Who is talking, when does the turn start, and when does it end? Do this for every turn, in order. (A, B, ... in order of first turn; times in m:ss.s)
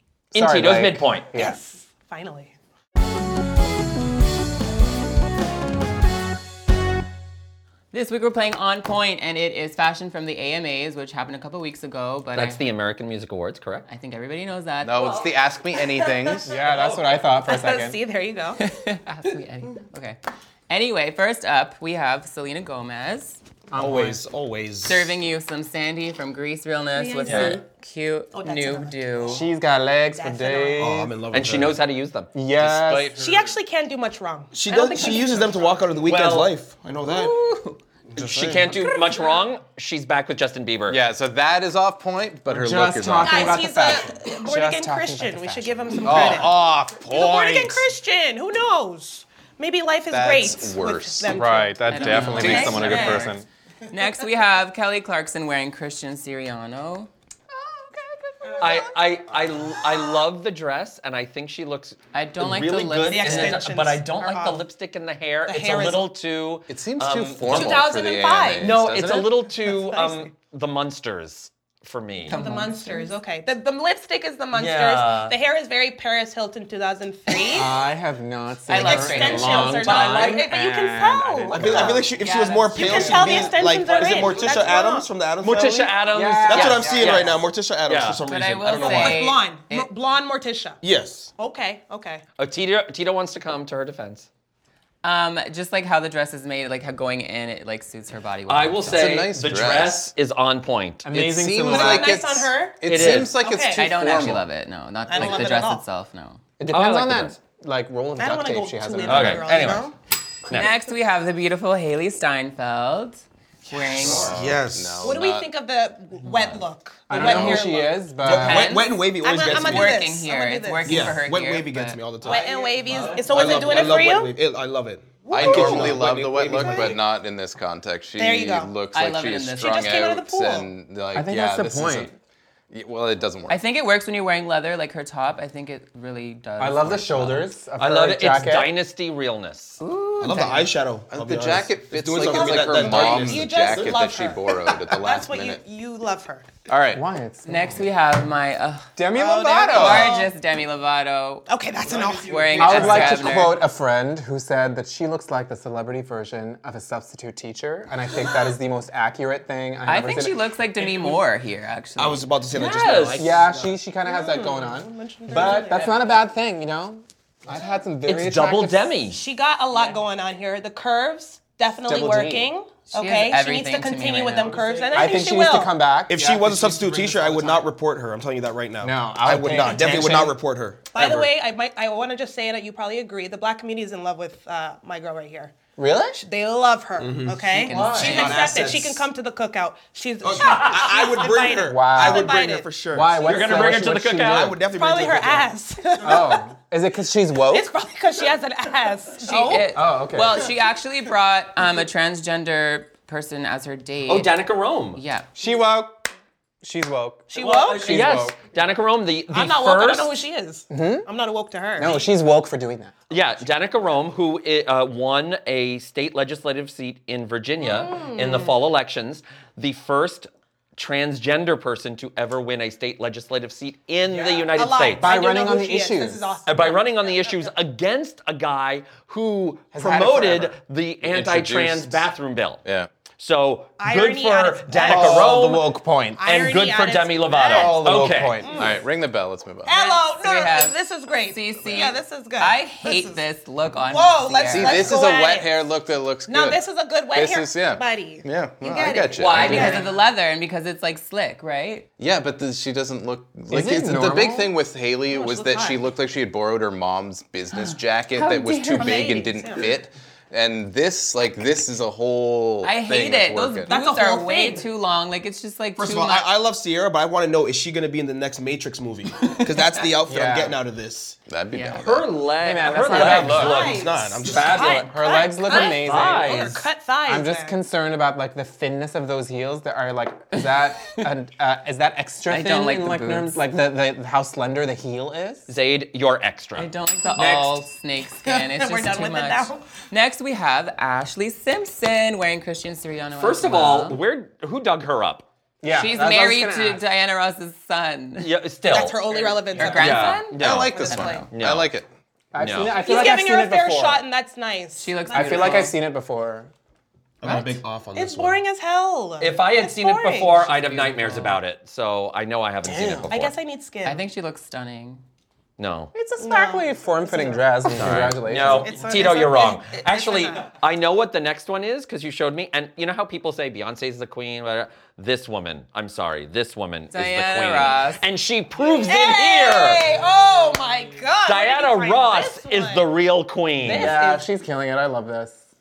0:00.3-0:01.6 A
0:00.3-0:01.3 B
0:01.3-0:02.5 C
0:07.9-0:12.6 D
0:12.3-0:13.8 B
0:13.9-0:15.2 D
0:14.8-0:16.5 E
0:15.0-0:15.3 B
0:16.4-0:18.0 A
0:16.6-0:17.2 B
0:17.4-0:18.6 C
0:18.6-0:20.2 D
0:20.7-0:23.4 D
0:23.7-0:24.2 A
0:23.7-0:25.2 F
0:24.8-0:29.4 D
0:26.9-0:27.6 C
0:28.3-0:29.4 C
0:29.2-0:31.1 A
0:30.2-0:30.9 C
0:30.8-0:31.8 F
0:31.3-0:33.5 B
0:32.3-0:33.1 A
0:33.1-0:35.6 C
0:34.5-0:37.5 F
0:36.0-0:36.5 B
0:37.0-0:37.8 D
0:38.1-0:38.8 F
0:38.2-0:41.0 B
0:40.9-0:43.7 E
0:42.5-0:46.4 A
0:43.2-0:46.6 C
0:46.0-0:47.9 E
0:47.1-0:53.3 C
0:50.1-0:51.5 E
0:51.3-0:53.4 A
0:51.9-0:53.4 D
0:52.3-0:53.2 E
0:53.9-0:57.1 D
0:58.6-1:07.8 B
1:02.1-1:03.7 D
1:03.1-1:04.6 C
1:05.4-1:06.0 C
1:06.7-1:09.3 E
1:07.5-1:08.8 C
1:08.6-1:12.4 B
1:09.6-1:10.3 C
1:12.3-1:13.1 D
1:12.3-1:17.7 C
1:14.5-1:15.4 B
1:17.5-1:22.1 A
1:18.7-1:19.9 D
1:18.7-1:22.0 C
1:19.7-1:20.5 B
1:21.5-1:29.3 F
1:21.9-1:24.3 D
1:22.7-1:25.1 C
1:25.4-1:28.2 B
1:26.1-1:27.3 A
1:28.2-1:29.9 D
1:28.7-1:30.8 C
1:30.8-1:31.3 F
1:31.3-1:32.2 C
1:32.4-1:34.3 B
1:35.0-1:39.1 D
1:38.5-1:41.1 B
1:38.8-1:40.1 E
1:41.0-1:42.2 A
1:41.1-1:44.4 E
1:41.6-1:43.9 C
1:42.8-1:43.3 B
1:43.7-1:46.4 D
1:45.1-1:45.8 C
1:46.6-1:49.8 A
1:46.6-1:47.4 B
1:48.2-1:49.9 C
1:49.0-1:49.9 B
1:50.5-1:50.7 B
1:50.5-1:54.4 D
1:54.0-1:55.5 E
1:54.1-1:55.1 F
1:55.0-1:58.1 C
1:56.2-1:56.6 B
1:57.1-1:58.7 A
1:57.2-1:57.6 E
1:58.2-2:00.1 F
1:58.2-2:02.3 D
1:59.1-2:01.2 C
2:00.8-2:07.0 F
2:02.2-2:04.3 C
2:02.8-2:03.5 B
2:03.4-2:03.9 E
2:05.3-2:06.0 C
2:05.3-2:12.1 E
2:08.2-2:08.8 C
2:08.9-2:09.9 D
2:09.6-2:10.7 C
2:11.1-2:12.1 A
2:12.7-2:13.6 E
2:13.5-2:17.5 D
2:16.6-2:18.7 A
2:17.8-2:19.8 B
2:19.8-2:20.7 D
2:20.2-2:24.3 F
2:21.1-2:25.6 E
2:22.2-2:26.5 C
2:26.7-2:27.0 E
2:26.9-2:27.8 A
2:27.4-2:28.9 D
2:29.0-2:30.1 A
2:29.1-2:30.3 C
2:29.7-2:31.5 D
2:31.5-2:33.0 C
2:31.8-2:33.4 F
2:32.2-2:33.6 D
2:32.6-2:40.4 A
2:39.8-2:42.2 D
2:42.0-2:43.7 F
2:42.5-2:43.3 B
2:43.2-2:48.9 A
2:44.0-2:46.0 C
2:48.0-2:49.2 B
2:49.1-2:55.7 C
2:51.8-2:52.5 A
2:52.9-2:54.8 D
2:54.4-2:55.3 F
2:54.9-2:57.6 A
2:56.1-3:01.3 F
2:58.8-3:00.3 A
3:00.9-3:05.6 C
3:05.8-3:06.2 A
3:06.2-3:12.7 C
3:07.0-3:09.1 F
3:07.5-3:08.6 D
3:07.7-3:08.2 A
3:10.2-3:15.5 F
3:10.4-3:10.9 B
3:11.6-3:12.3 A
3:12.9-3:14.6 A
3:13.2-3:14.5 B
3:14.7-3:16.5 C
3:16.0-3:17.7 A
3:17.4-3:19.8 C
3:19.2-3:24.4 D
3:19.7-3:20.5 A
3:24.1-3:25.0 B
3:24.9-3:25.3 D
3:25.4-3:26.1 A
3:26.6-3:28.3 A
3:27.3-3:28.3 C
3:27.4-3:30.2 B
3:29.3-3:32.1 C
3:30.7-3:31.1 A
3:31.8-3:32.9 A
3:33.1-3:45.1 B
3:37.6-3:38.5 C
3:44.5-3:47.4 C
3:45.0-3:46.4 A
3:46.4-3:52.6 B
3:49.7-3:50.5 A
3:51.0-3:52.1 E
3:53.2-3:58.5 B
3:53.8-3:55.3 C
3:54.8-3:56.2 A
3:56.2-3:58.8 C
3:57.5-3:58.7 A
3:58.5-3:59.7 E
3:59.6-4:03.2 C
3:59.7-4:05.0 D
4:03.8-4:05.6 C
4:04.4-4:09.8 E
4:06.3-4:09.9 C
4:09.1-4:11.9 D
4:12.0-4:23.7 E
4:13.5-4:14.5 A
4:15.1-4:15.8 C
4:17.5-4:19.1 D
4:18.8-4:19.7 C
4:22.6-4:26.3 D
4:23.7-4:24.6 C
4:25.8-4:31.2 F
4:29.2-4:29.5 D
4:30.1-4:30.6 A
4:31.3-4:32.1 E
4:31.5-4:31.9 D
4:31.7-4:36.7 B
4:32.4-4:33.8 A
4:32.9-4:33.4 D
4:33.0-4:34.9 F
4:33.1-4:37.6 C
4:34.9-4:45.5 A
4:42.3-4:43.4 D
4:45.5-4:46.7 B
4:46.6-4:54.0 D
4:47.2-4:47.6 A
4:48.2-4:49.6 C
4:53.2-4:55.2 B
4:55.6-4:56.8 A
4:55.7-4:58.3 D
4:58.2-4:59.0 B
4:58.7-5:01.3 C
4:59.1-5:01.3 D
4:59.6-5:00.8 B
5:00.4-5:01.9 E
5:01.3-5:01.7 B
5:02.3-5:04.0 A
5:02.4-5:02.8 B
5:02.8-5:05.7 C
5:04.8-5:05.7 D
5:05.1-5:06.5 A
5:07.2-5:08.4 F
5:07.2-5:07.6 D
5:07.9-5:10.5 C
5:09.2-5:13.3 B
5:10.4-5:11.4 D
5:12.6-5:13.1 A
5:13.1-5:14.0 C
5:13.8-5:15.0 D
5:15.6-5:15.9 B
5:15.9-5:18.7 A
5:16.2-5:17.8 C
5:17.7-5:29.9 B
5:18.4-5:20.4 C
5:26.9-5:28.0 D
5:28.6-5:32.9 C
5:31.2-5:33.9 B
5:33.6-5:34.2 C
5:33.7-5:35.4 A